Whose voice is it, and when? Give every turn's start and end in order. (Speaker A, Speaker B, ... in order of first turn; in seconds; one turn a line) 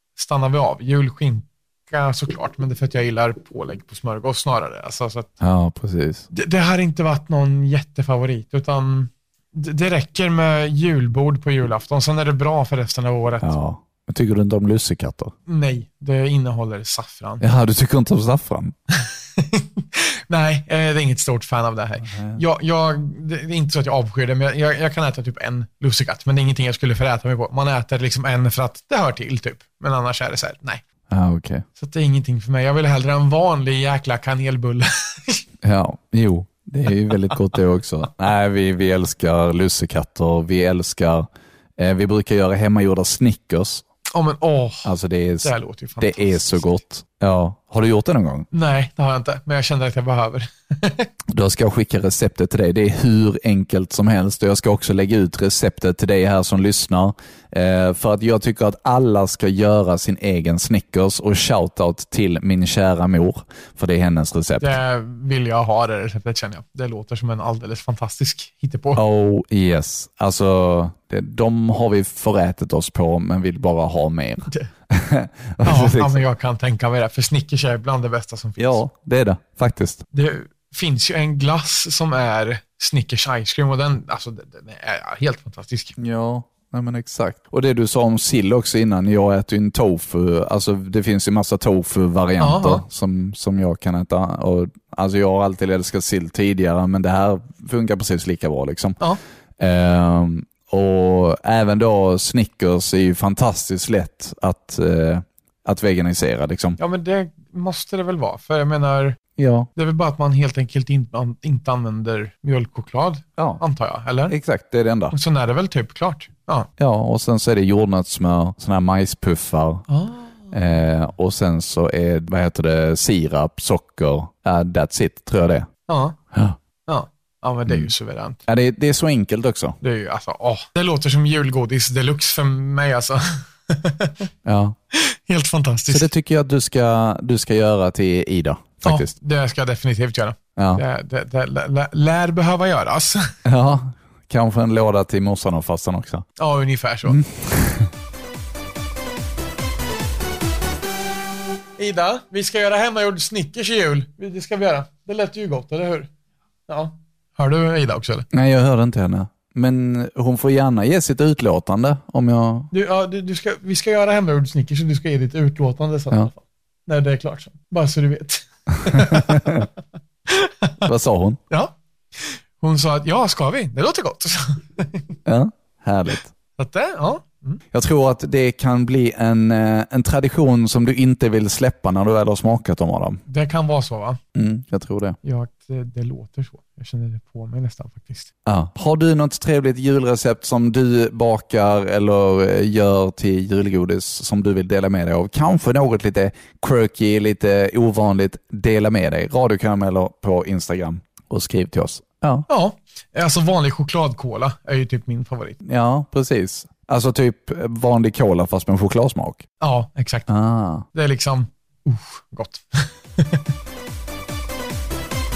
Speaker A: 0.2-5.3
Speaker B: 5.4-6.2
Speaker A: 6.3-13.5
Speaker B: 13.4-15.3
Speaker A: 15.5-17.4
Speaker B: 17.4-18.7
Speaker A: 19.1-30.8
Speaker B: 22.0-22.4
Speaker B: 31.1-31.6
Speaker A: 31.8-35.4
Speaker B: 35.6-43.8
Speaker A: 44.1-46.8
Speaker B: 44.8-48.5
Speaker A: 48.5-51.1
Speaker B: 51.3-64.8
Speaker A: 64.6-69.0
Speaker B: 68.9-76.2
Speaker A: 75.6-78.8
Speaker B: 78.6-80.0
Speaker A: 80.1-85.9
Speaker B: 86.0-99.0
Speaker A: 92.4-92.8
Speaker B: 99.6-106.8
Speaker A: 106.8-109.2
Speaker B: 109.4-109.7
Speaker A: 109.8-114.3
Speaker B: 113.4-113.6
Speaker B: 114.3-115.2
Speaker A: 115.1-116.7
Speaker B: 116.8-119.8
Speaker A: 119.9-120.5
Speaker B: 120.5-125.7
Speaker A: 125.9-126.2
Speaker A: 126.9-128.4
Speaker B: 128.4-129.8
Speaker A: 129.8-134.3
Speaker B: 134.4-134.8
Speaker A: 134.9-136.1
Speaker B: 135.9-139.1
Speaker A: 138.8-143.3
Speaker B: 140.6-140.8
Speaker B: 143.4-146.2
Speaker A: 146.4-147.2
Speaker B: 147.0-147.9
Speaker A: 151.8-156.1
Speaker A: 156.7-158.2
Speaker B: 158.3-162.7
Speaker A: 162.7-169.6
Speaker B: 168.9-169.7
Speaker A: 170.3-170.8
Speaker B: 170.8-171.4
Speaker A: 171.5-175.1
Speaker B: 175.2-176.3
Speaker A: 176.6-177.6
Speaker B: 177.7-183.2
Speaker A: 183.3-184.2
Speaker B: 184.3-185.2
Speaker A: 185.2-188.3
Speaker B: 188.4-202.4
Speaker A: 202.5-205.6
Speaker B: 205.6-209.4
Speaker A: 209.6-210.3
Speaker B: 210.3-210.8
Speaker A: 210.9-213.4